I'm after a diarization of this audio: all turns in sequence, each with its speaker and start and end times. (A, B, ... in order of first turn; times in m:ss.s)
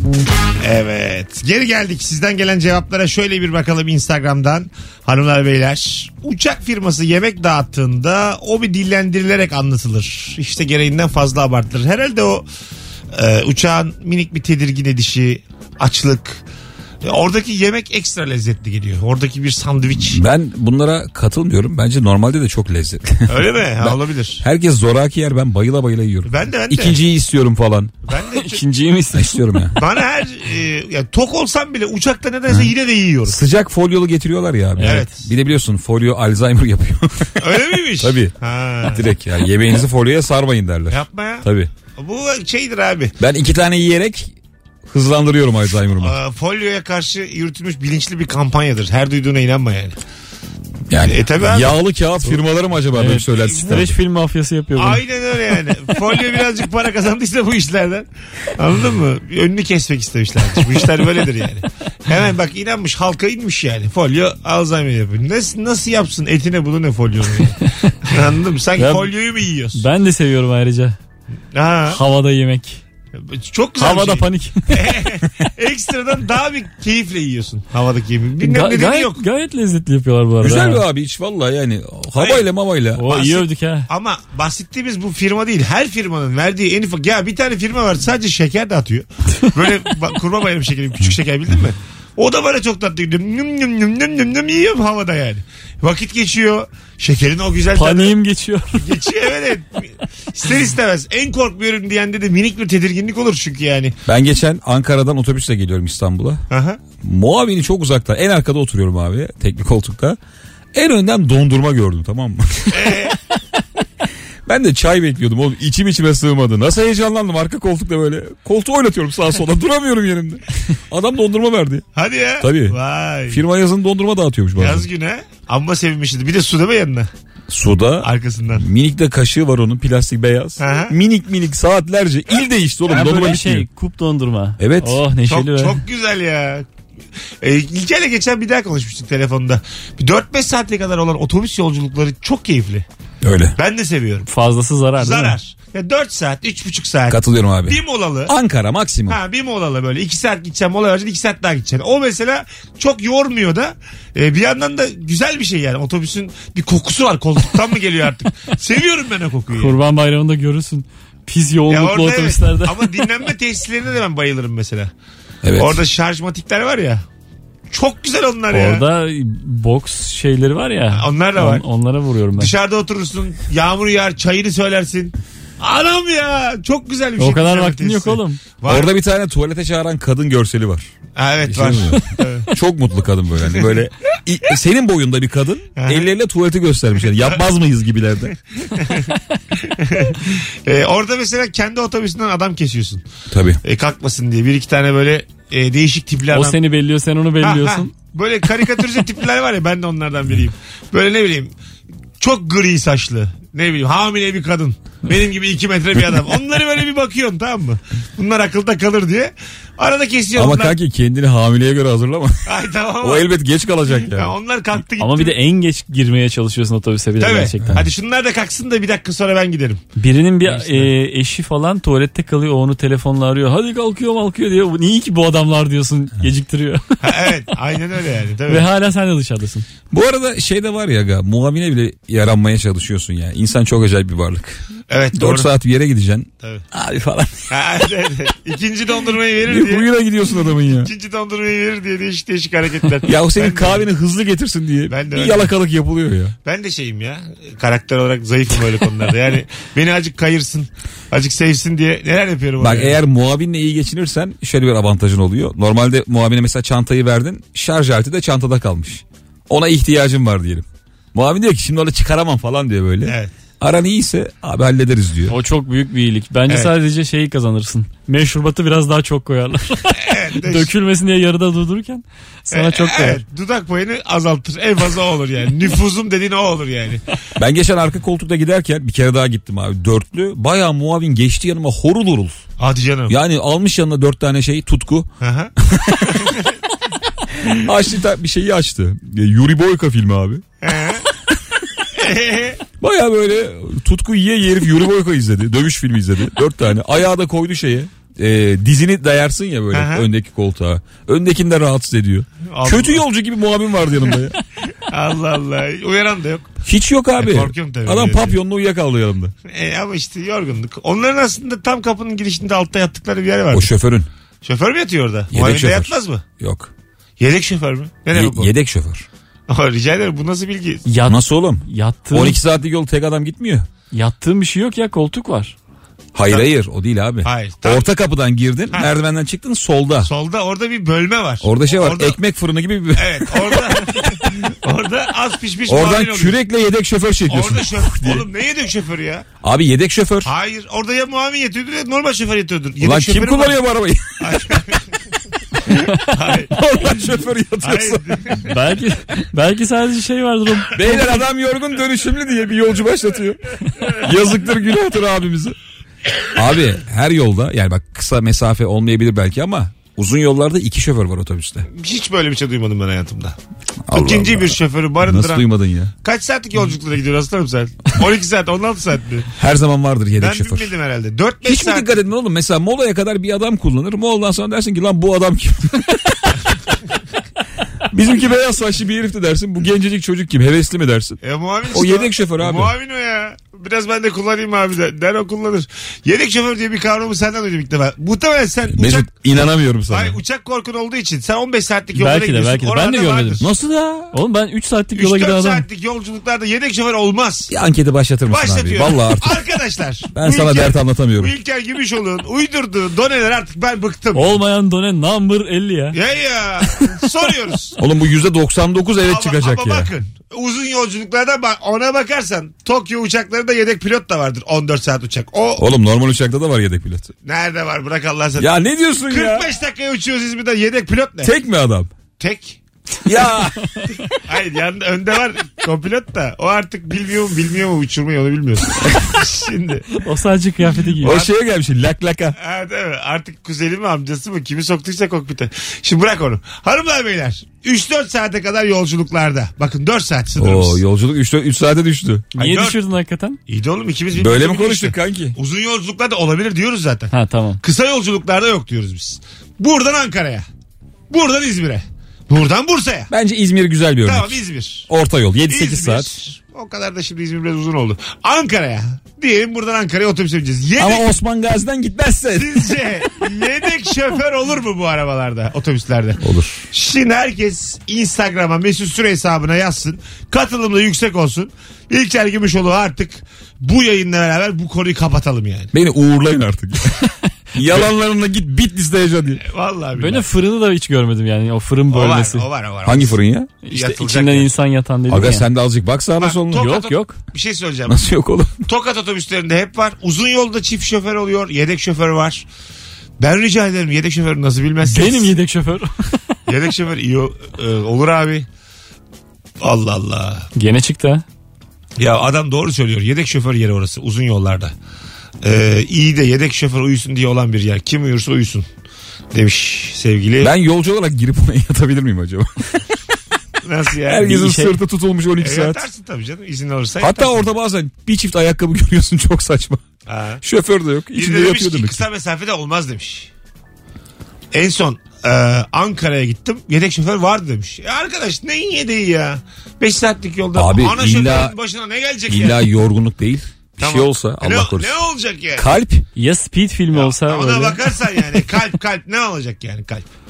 0:00.6-0:12.4 A
0:13.1-0:16.4 A
0:17.0-0:20.2 A
0:19.9-0:27.9 B
0:23.3-0:24.4 A
0:26.2-0:27.0 A
0:28.1-0:28.6 A
0:28.2-0:29.6 C
0:29.1-0:29.8 B
0:29.8-0:33.4 A
0:33.2-0:37.4 B
0:34.8-0:35.3 A
0:37.4-0:39.1 A
0:38.0-0:41.7 B
0:40.9-0:43.1 A
0:43.2-0:44.3 B
0:44.8-0:46.2 B
0:46.0-0:50.0 A
0:50.9-0:54.0 B
0:51.0-0:51.8 A
0:52.9-0:55.0 C
0:53.3-0:54.0 A
0:54.8-1:09.8 A
1:07.6-1:07.9 C
1:08.8-1:09.1 C
1:09.7-1:11.0 C
1:11.5-1:12.0 A
1:11.9-1:12.8 C
1:13.2-1:19.2 A
1:13.8-1:15.0 C
1:18.4-1:20.8 C
1:20.4-1:23.2 B
1:22.2-1:22.5 A
1:23.0-1:23.9 C
1:23.1-1:38.1 A
1:37.7-1:38.8 C
1:38.7-1:43.9 A
1:44.0-1:46.4 B
1:46.5-1:46.8 A
1:47.0-1:50.2 B
1:50.7-1:53.1 B
1:52.7-1:53.2 A
1:54.4-2:01.8 B
2:01.9-2:03.4 A
2:02.4-2:02.8 B
2:03.3-2:04.9 B
2:04.6-2:07.1 A
2:07.5-2:13.6 B
2:08.0-2:08.6 A
2:10.6-2:10.9 A
2:12.9-2:15.8 C
2:14.6-2:15.0 B
2:15.3-2:16.7 A
2:17.4-2:22.8 A
2:23.2-2:23.6 B
2:23.6-2:24.3 A
2:24.2-2:25.4 C
2:25.0-2:28.3 A
2:27.1-2:29.2 B
2:29.1-2:39.8 A
2:39.5-2:42.9 C
2:41.7-2:44.9 A
2:45.4-2:45.8 B
2:45.6-2:47.0 A
2:47.7-2:48.8 A
2:48.5-2:52.5 C
2:50.9-2:51.6 A
2:52.4-2:58.9 A
2:57.2-2:58.4 C
2:58.6-3:00.9 B
3:01.2-3:02.5 A
3:01.4-3:08.3 B
3:03.5-3:03.8 A
3:05.8-3:06.1 A
3:08.7-3:13.0 A
3:13.3-3:13.6 B
3:13.6-3:16.6 A
3:16.3-3:17.9 C
3:17.4-3:21.5 A
3:22.2-3:30.8 A
3:30.4-3:32.5 B
3:32.4-3:33.3 A
3:33.0-3:34.3 B
3:34.0-3:35.3 A
3:35.0-3:37.8 C
3:37.2-3:39.8 A
3:40.0-3:47.0 C
3:47.0-3:48.7 A
3:48.5-3:49.6 C
3:49.9-3:57.6 B
3:54.9-3:55.5 A
3:57.5-3:59.9 A
3:59.5-4:00.9 B
4:00.8-4:03.9 A
4:03.0-4:06.3 B
4:04.9-4:05.5 A
4:06.4-4:13.0 A
4:12.6-4:25.4 B
4:23.0-4:23.3 A
4:25.3-4:33.2 C
4:29.9-4:30.7 A
4:32.5-4:37.0 A
4:37.4-4:42.4 B
4:42.6-4:43.2 A
4:43.1-4:45.1 B
4:45.2-4:45.5 A
4:45.6-4:46.4 B
4:46.1-4:46.6 A
4:47.6-4:50.4 B
4:50.6-4:51.0 A
4:51.9-4:52.6 A
4:52.8-5:04.4 B
4:59.7-5:00.1 A
5:02.4-5:03.0 A
5:04.9-5:06.5 A
5:06.6-5:09.3 B
5:07.2-5:08.4 A
5:09.5-5:13.7 A
5:13.5-5:14.1 B
5:14.4-5:16.2 A
5:15.3-5:16.7 B
5:17.2-5:18.5 A
5:18.1-5:19.0 B
5:19.5-5:20.8 A
5:20.8-5:22.4 C
5:21.0-5:23.7 B
5:23.9-5:25.6 C
5:26.1-5:30.1 B
5:27.2-5:27.9 A
5:30.0-5:32.2 A
5:31.4-5:34.1 B
5:32.9-5:36.4 A
5:35.7-5:38.2 B
5:37.3-5:39.2 A
5:39.4-5:40.3 B
5:40.2-5:43.6 A
5:42.8-5:44.8 B
5:44.2-5:44.8 A
5:46.0-5:46.5 A
5:46.5-5:48.4 B
5:47.6-5:48.5 A
5:48.4-5:51.2 C
5:50.7-5:55.6 B
5:56.3-6:01.7 B
6:01.7-6:03.4 A
6:03.9-6:05.9 B
6:03.9-6:05.5 A
6:06.0-6:09.3 A
6:09.3-6:10.7 B
6:10.2-6:12.0 A
6:11.4-6:16.4 B
6:17.9-6:21.2 B
6:21.2-6:29.2 A
6:21.7-6:22.7 B
6:28.7-6:30.2 B
6:29.9-6:33.5 A
6:31.9-6:33.4 C
6:33.4-6:34.1 B
6:34.1-6:35.6 C
6:35.0-6:37.5 A
6:37.5-6:39.4 B
6:38.3-6:44.4 A
6:40.1-6:41.3 B
6:44.1-6:46.0 C
6:45.9-6:47.8 A
6:47.8-6:49.9 B
6:49.0-6:55.7 A
6:55.6-6:57.1 B
6:57.2-6:58.6 A
6:58.4-6:59.5 B
6:59.1-7:01.3 A
7:01.2-7:01.9 B
7:02.2-7:02.6 A
7:03.0-7:03.7 B
7:04.1-7:10.0 A
7:10.0-7:11.2 C
7:11.0-7:12.4 B
7:12.4-7:20.8 A
7:20.4-7:22.3 B
7:22.3-7:22.8 A
7:22.4-7:23.4 C
7:23.5-7:30.4 A
7:24.1-7:25.4 B
7:27.1-7:27.6 C
7:31.1-7:33.1 A
7:33.1-7:34.4 B
7:34.0-7:34.9 A
7:34.9-7:36.1 B
7:35.5-7:41.1 A
7:40.8-7:42.8 B
7:42.3-7:55.7 A
7:46.2-7:46.6 B
7:55.7-7:59.4 B
7:59.4-8:00.3 A
7:59.9-8:02.4 C
8:01.9-8:03.2 A
8:02.8-8:03.5 B
8:03.6-8:05.5 C
8:03.7-8:04.5 A
8:05.1-8:06.8 B
8:06.2-8:08.0 A
8:06.5-8:07.2 C
8:07.9-8:08.6 B
8:08.6-8:12.4 A
8:13.2-8:15.3 A
8:14.8-8:15.9 C
8:16.5-8:18.4 A
8:19.6-8:20.5 A
8:20.5-8:21.2 C
8:22.0-8:24.7 A
8:25.4-8:28.6 A
8:29.3-8:30.5 A
8:30.4-8:32.6 B
8:33.6-8:34.4 A
8:34.1-8:35.8 B
8:34.2-8:34.7 C
8:35.4-8:37.5 A
8:37.0-8:39.8 B
8:40.0-8:40.4 A
8:40.4-8:42.0 B
8:41.1-8:43.3 A
8:44.5-8:52.6 A
8:50.5-8:51.5 B
8:52.3-8:55.0 B
8:53.8-8:55.7 A
8:55.6-8:56.0 B
8:56.1-8:57.8 C
8:56.9-9:00.1 A